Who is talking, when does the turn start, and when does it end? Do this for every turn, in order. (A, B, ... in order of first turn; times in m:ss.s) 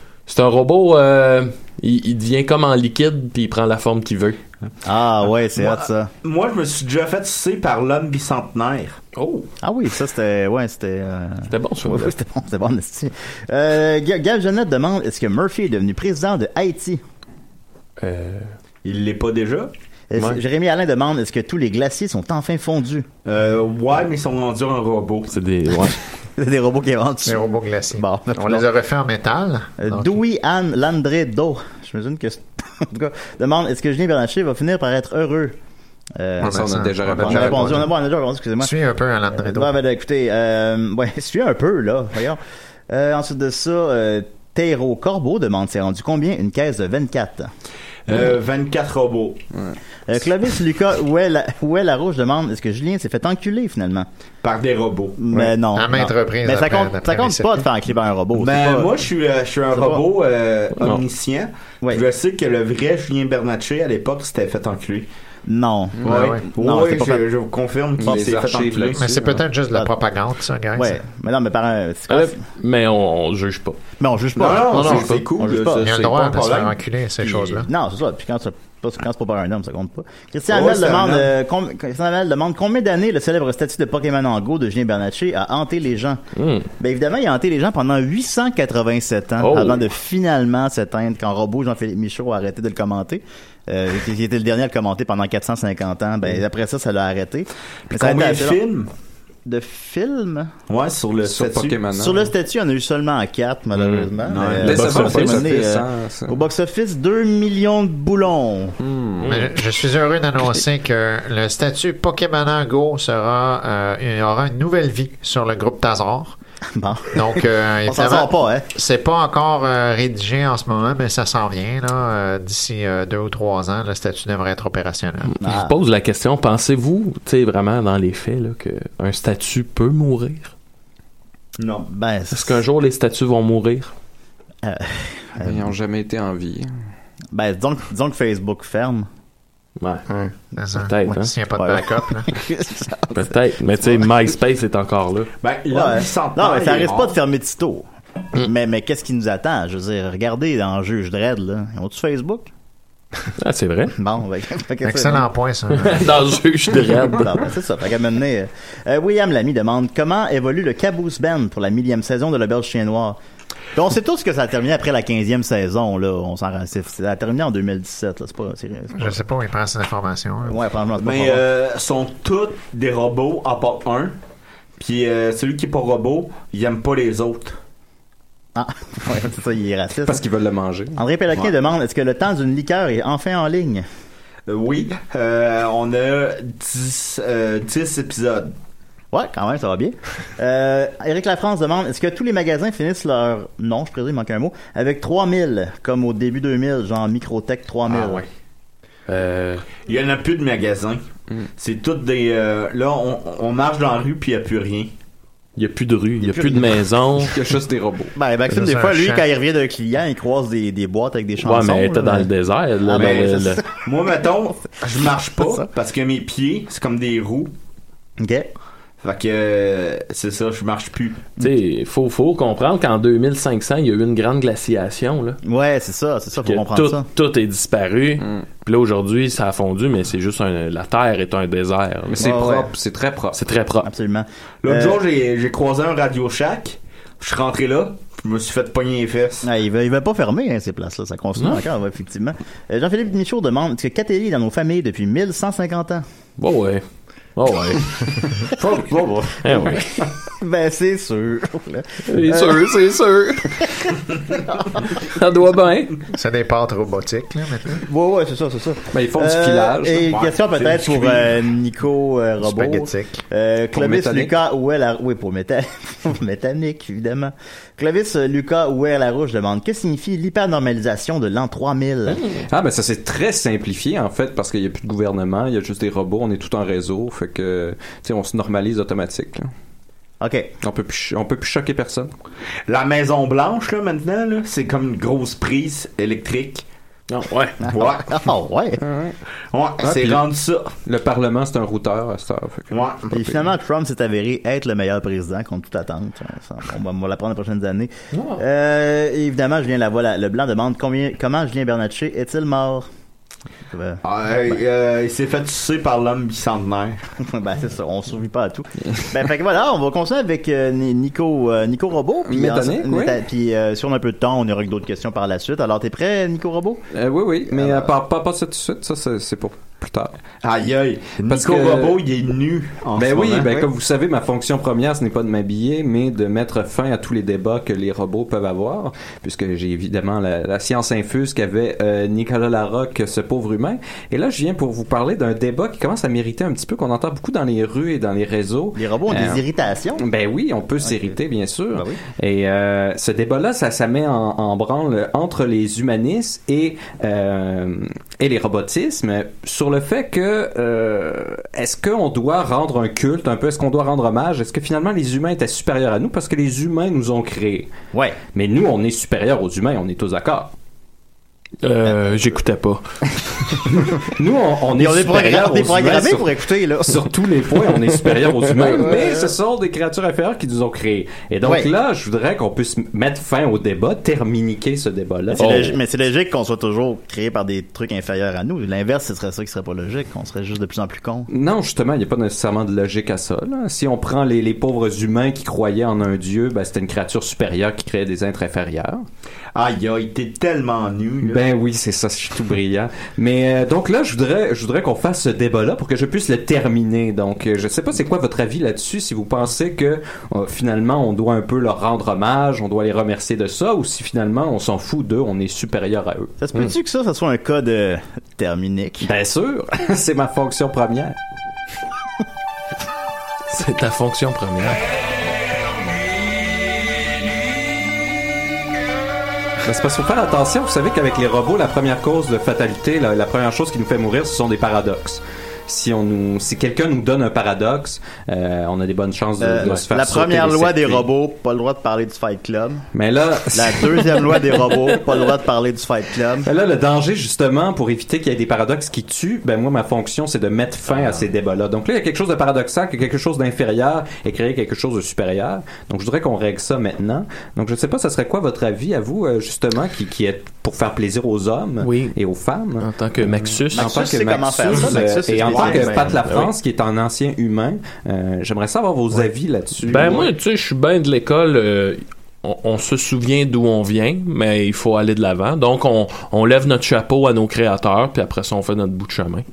0:00.3-0:04.4 A
0:04.8-0:06.1 B
0:06.2-0:09.0 C
0:09.2-0:09.5 A
0:09.6-0:17.0 B
0:11.5-0:12.1 A
0:18.0-0:18.5 A
0:18.8-0:19.7 C
0:20.1-0:23.1 B
0:20.2-0:20.4 A
0:23.2-0:25.3 C
0:25.3-0:26.0 A
0:26.4-0:28.6 B
0:27.2-0:30.1 D
0:29.8-0:35.6 B
0:36.1-0:38.7 B
0:36.4-0:37.8 E
0:36.4-0:37.9 D
0:38.6-0:39.8 D
0:39.3-0:47.5 B
0:48.1-0:49.4 C
0:50.1-0:54.1 B
0:54.4-0:55.2 C
0:55.2-0:59.0 B
0:55.7-0:57.6 D
0:58.4-1:05.1 C
0:59.7-1:00.0 B
1:00.8-1:01.0 A
1:05.4-1:07.2 B
1:06.0-1:06.5 D
1:06.0-1:09.1 C
1:08.0-1:09.3 E
1:08.0-1:08.3 B
1:08.9-1:11.0 D
1:10.8-1:12.4 B
1:12.1-1:13.8 A
1:14.0-1:15.8 B
1:14.4-1:16.8 C
1:14.7-1:15.1 D
1:15.7-1:17.7 D
1:17.6-1:26.2 B
1:20.5-1:21.3 C
1:26.4-1:26.7 A
1:26.8-1:38.6 B
1:29.4-1:29.8 A
1:37.9-1:38.9 C
1:39.4-1:40.5 B
1:40.7-1:41.8 C
1:41.2-1:42.3 E
1:41.9-1:48.7 B
1:43.8-1:44.1 A
1:44.2-1:45.4 C
1:44.6-1:46.4 E
1:45.0-1:45.4 A
1:48.9-1:49.1 E
1:49.2-1:49.5 A
1:49.2-1:56.4 D
1:56.7-1:58.7 B
1:57.1-2:05.4 D
2:05.4-2:05.7 B
2:05.4-2:10.5 A
2:11.6-2:11.9 C
2:11.9-2:12.6 B
2:12.3-2:13.9 A
2:14.6-2:15.7 B
2:15.4-2:16.7 E
2:17.3-2:19.1 B
2:20.6-2:22.3 D
2:20.8-2:21.3 A
2:21.6-2:23.3 B
2:23.1-2:25.3 A
2:25.4-2:27.1 C
2:25.7-2:32.5 B
2:33.4-2:33.9 A
2:33.9-2:35.2 B
2:34.8-2:36.1 D
2:35.8-2:37.5 A
2:37.0-2:43.2 B
2:43.7-2:49.2 B
2:48.9-2:50.6 D
2:50.4-2:51.4 B
2:51.0-2:54.1 C
2:54.8-2:57.6 C
2:58.6-3:00.2 B
3:00.0-3:01.0 E
3:01.0-3:03.8 B
3:04.5-3:08.5 C
3:09.1-3:18.2 B
3:19.1-3:19.6 A
3:19.8-3:21.0 C
3:21.6-3:24.9 C
3:25.6-3:27.4 A
3:26.2-3:26.7 B
3:27.2-3:28.1 E
3:28.1-3:32.3 B
3:28.5-3:29.3 D
3:31.4-3:33.6 A
3:32.8-3:33.6 B
3:33.0-3:33.3 C
3:33.8-3:37.5 C
3:35.4-3:35.7 B
3:38.2-3:38.5 B
3:39.0-3:41.3 C
3:41.4-3:45.4 A
3:45.4-3:47.0 B
3:46.4-3:52.3 A
3:48.2-3:48.4 E
3:52.1-3:53.4 E
3:52.2-3:52.7 B
3:53.3-3:53.9 A
3:53.8-3:55.0 B
3:54.6-3:59.4 C
3:59.4-4:06.0 B
4:01.4-4:01.6 A
4:06.4-4:06.8 A
4:07.4-4:08.2 A
4:09.4-4:09.9 A
4:10.3-4:12.7 B
4:12.1-4:13.7 A
4:14.4-4:14.8 B
4:14.9-4:16.0 A
4:16.1-4:17.8 D
4:17.8-4:32.2 B
4:18.9-4:20.1 E
4:20.1-4:21.3 C
4:22.4-4:23.2 D
4:23.7-4:24.3 E
4:32.1-4:32.4 A
4:32.5-4:39.5 E
4:40.2-4:40.5 B
4:40.6-4:42.1 E
4:42.7-4:46.6 C
4:47.1-4:47.6 A
4:47.6-4:48.8 B
4:47.7-4:48.1 C
4:48.8-4:49.2 E
4:49.5-4:50.7 C
4:49.8-4:50.2 E
4:50.8-4:52.8 E
4:52.7-4:53.1 C
4:53.1-5:02.9 B
4:58.1-4:58.4 A
5:03.7-5:04.6 B
5:04.0-5:07.0 C
5:07.2-5:16.8 B
5:12.2-5:13.2 E
5:16.9-5:20.1 E
5:17.5-5:17.9 B
5:20.4-5:23.6 C
5:21.2-5:22.0 E
5:23.0-5:39.4 E
5:38.7-5:40.0 B
5:40.0-5:57.7 E
5:40.8-5:41.2 B
5:41.7-5:42.0 B
5:57.9-5:58.2 B
5:58.3-6:00.5 E
6:01.6-6:02.8 A
6:04.1-6:06.3 E
6:04.7-6:07.1 B
6:06.8-6:15.6 E
6:08.2-6:09.0 A
6:08.7-6:09.3 B
6:11.4-6:11.7 B
6:15.3-6:21.3 B
6:15.4-6:15.8 A
6:21.3-6:29.0 E
6:29.6-6:31.4 C
6:31.2-6:46.3 E
6:46.4-6:49.1 B
6:49.0-6:51.2 E
6:53.5-6:54.8 A
6:59.6-7:11.1 E
7:09.4-7:12.9 B
7:12.9-7:14.7 E
7:13.5-7:16.5 B
7:16.4-7:40.3 E
7:31.8-7:32.2 A
7:32.8-7:34.0 A
7:33.7-7:36.2 B
7:35.4-7:36.0 C
7:36.0-7:36.5 A
7:39.8-7:49.4 A